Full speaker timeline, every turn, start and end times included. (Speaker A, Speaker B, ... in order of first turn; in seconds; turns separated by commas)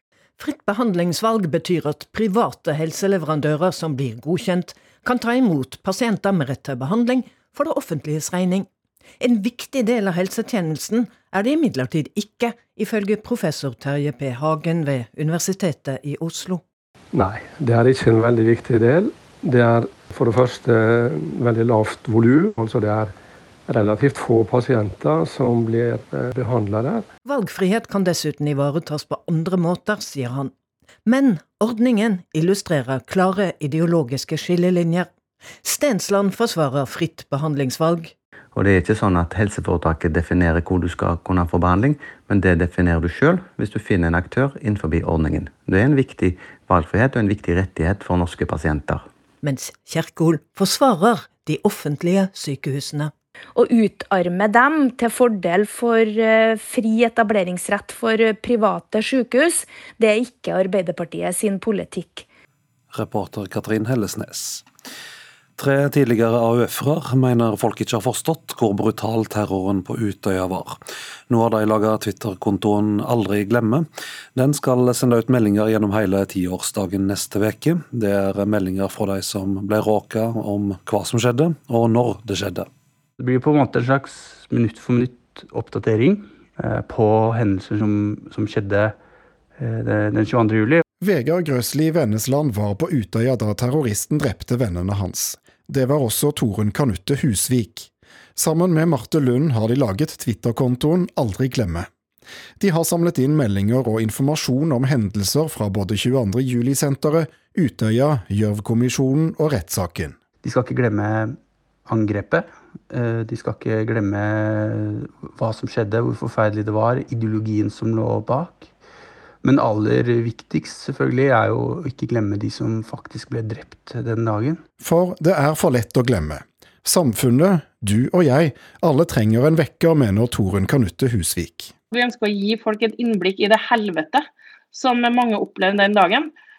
Speaker A: 0.4-8.7, Speaker A: 9.2-16.6, Speaker B: 17.1-23.1, Speaker B: 23.7-27.1, Speaker A: 27.2-30.5, Speaker A: 31.1-35.1, Speaker A: 35.6-38.1, Speaker C: 38.5-49.0, Speaker A: 49.4-53.1, Speaker D: 53.5-62.2, Speaker E: 62.9-64.6, Speaker E: 65.6-70.8, Speaker E: 71.3-82.7, Speaker F: 83.2-88.9, Speaker F: 89.6-90.8, Speaker G: 91.0-101.9, Speaker G: 102.6-110.2, Speaker F: 110.4-118.7, Speaker F: 119.4-124.6, Speaker G: 124.8-131.7, Speaker H: 131.9-136.3